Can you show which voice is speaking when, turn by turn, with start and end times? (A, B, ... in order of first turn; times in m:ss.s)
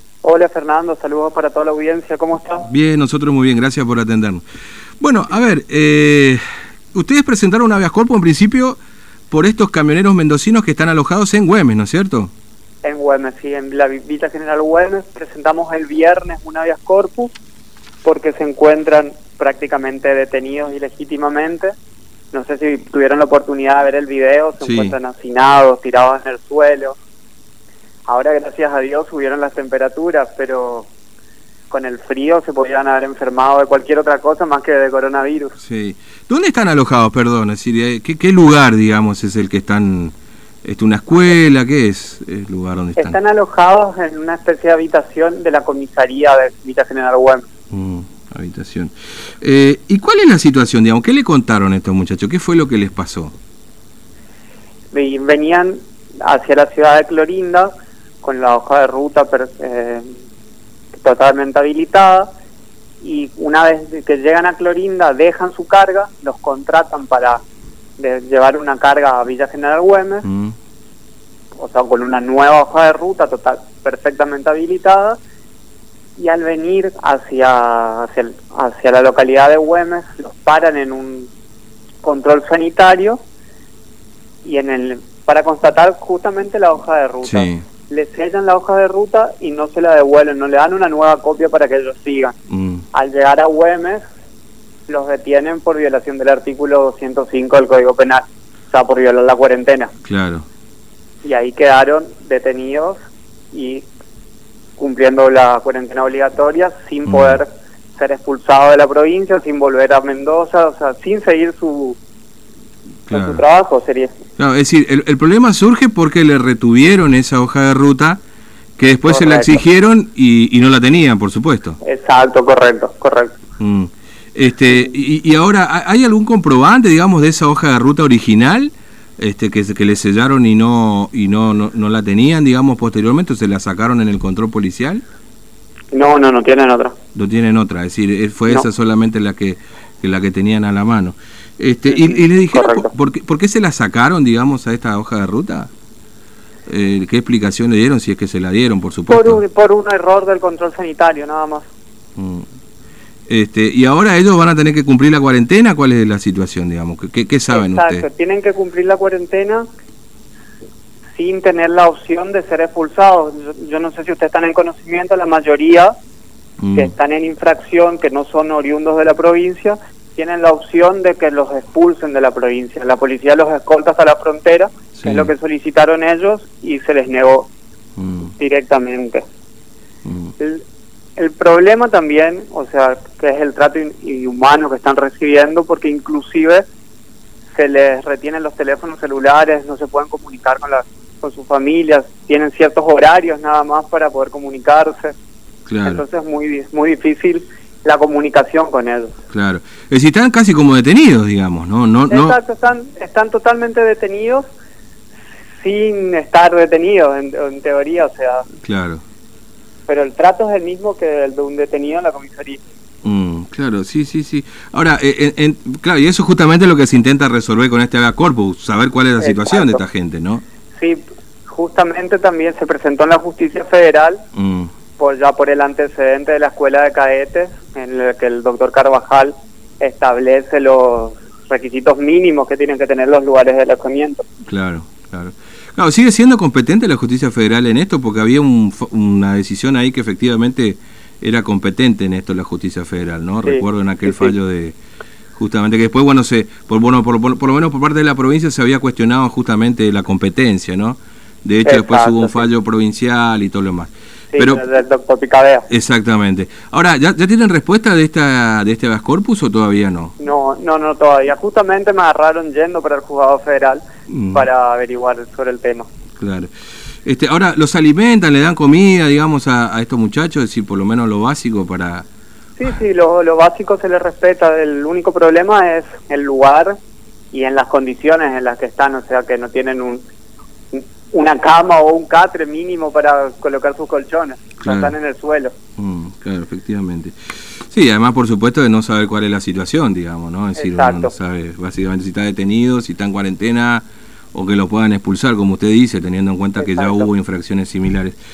0:00.2-0:02.7 A
0:02.7-0:04.4 B
0:05.0-0:06.4 B
0:06.9-0:12.3 B
0:12.8-0:17.3 A
0:18.0-0:21.7 A
0:22.3-0:27.0 A
0:24.6-0:25.0 B
0:28.1-0:30.9 A
0:31.7-0:35.6 A
0:35.6-0:43.2 B
0:43.0-0:47.5 A
0:47.7-0:53.3 B
0:54.9-0:57.7 A
0:58.2-1:00.1 A
1:01.0-1:02.3 A
1:03.0-1:07.4 A
1:08.0-1:10.2 A
1:10.2-1:10.5 B
1:11.6-1:15.2 A
1:16.2-1:21.3 A
1:22.0-1:23.2 A
1:24.4-1:32.3 A
1:27.2-1:27.6 B
1:32.5-1:32.8 B
1:32.9-1:34.0 A
1:34.9-1:39.9 A
1:40.0-1:40.4 B
1:41.2-1:43.0 A
1:43.5-1:43.8 A
1:44.8-1:52.0 A
1:47.0-1:47.4 B
1:53.1-1:53.4 B
1:53.1-1:54.1 A
1:54.4-1:58.2 B
1:58.8-2:01.8 B
1:59.0-1:59.6 A
2:01.8-2:03.4 A
2:03.6-2:15.0 B
2:15.9-2:16.9 A
2:17.1-2:25.7 B
2:21.9-2:22.9 A
2:26.7-2:29.4 B
2:29.1-2:31.7 A
2:32.2-2:32.5 B
2:33.3-2:38.0 B
2:37.5-2:39.6 A
2:41.1-2:45.9 A
2:46.6-2:46.9 B
2:46.8-2:57.5 A
2:54.9-2:55.3 B
2:58.0-2:58.3 B
2:58.4-2:59.2 A
3:00.0-3:00.3 B
3:01.2-3:06.6 A
3:07.5-3:15.1 A
3:15.7-3:16.0 B
3:15.8-3:19.2 A
3:19.3-3:22.4 B
3:22.1-3:24.4 A
3:25.6-3:28.4 A
3:28.6-3:29.0 B
3:29.9-3:32.6 A
3:33.0-3:40.4 B
3:39.2-3:39.8 A
3:40.8-3:44.2 A
3:44.3-3:44.7 B
3:45.0-3:54.2 A
3:54.4-4:04.8 B
4:03.4-4:04.3 A
4:05.4-4:14.6 B
4:11.6-4:12.5 A
4:14.3-4:15.7 A
4:15.7-4:20.1 B
4:20.2-4:25.9 A
4:24.1-4:24.5 B
4:26.2-4:26.5 B
4:27.0-4:32.0 B
4:32.6-4:36.8 A
4:37.3-4:40.0 A
4:40.7-4:45.5 A
4:44.6-4:44.9 B
4:45.8-4:58.2 B
4:50.6-4:51.1 A
4:56.6-4:57.1 A